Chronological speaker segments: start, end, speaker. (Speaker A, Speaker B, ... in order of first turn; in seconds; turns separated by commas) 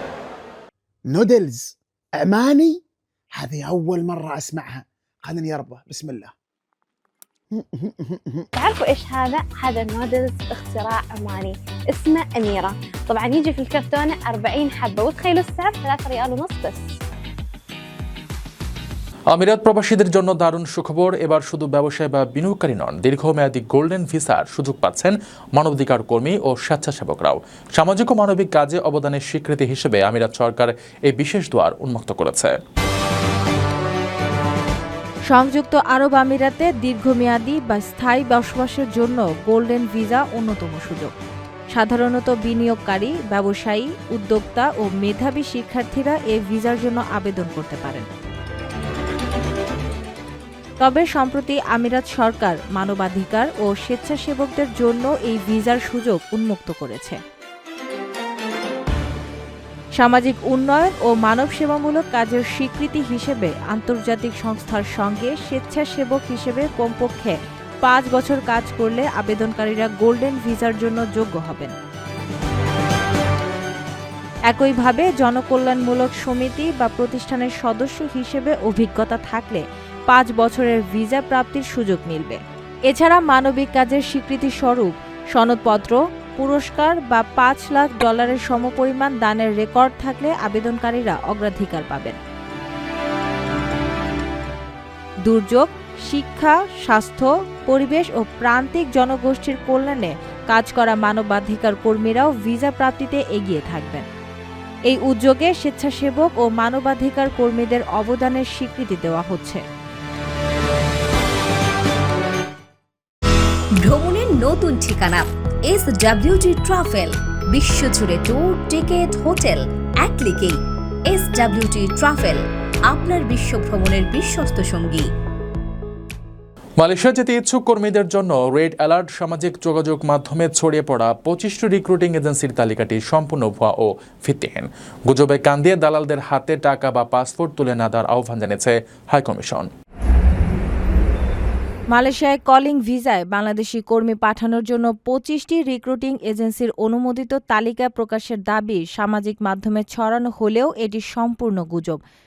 Speaker A: 1.1-2.8, Speaker A: 3.3-6.3, Speaker A: 7.5-8.4, Speaker B: 8.5-17.0, Speaker C: 19.3-32.5, Speaker D: 35.3-41.1, Speaker D: 41.7-48.1, Speaker D: 50.8-57.2, Speaker D: 60.0-71.7, Speaker D: 74.5-92.2, Speaker D: 95.2-104.0, Speaker D: 104.9-109.6, Speaker E: 113.8-125.1, Speaker C: 126.8-139.7, Speaker D: 141.9-152.0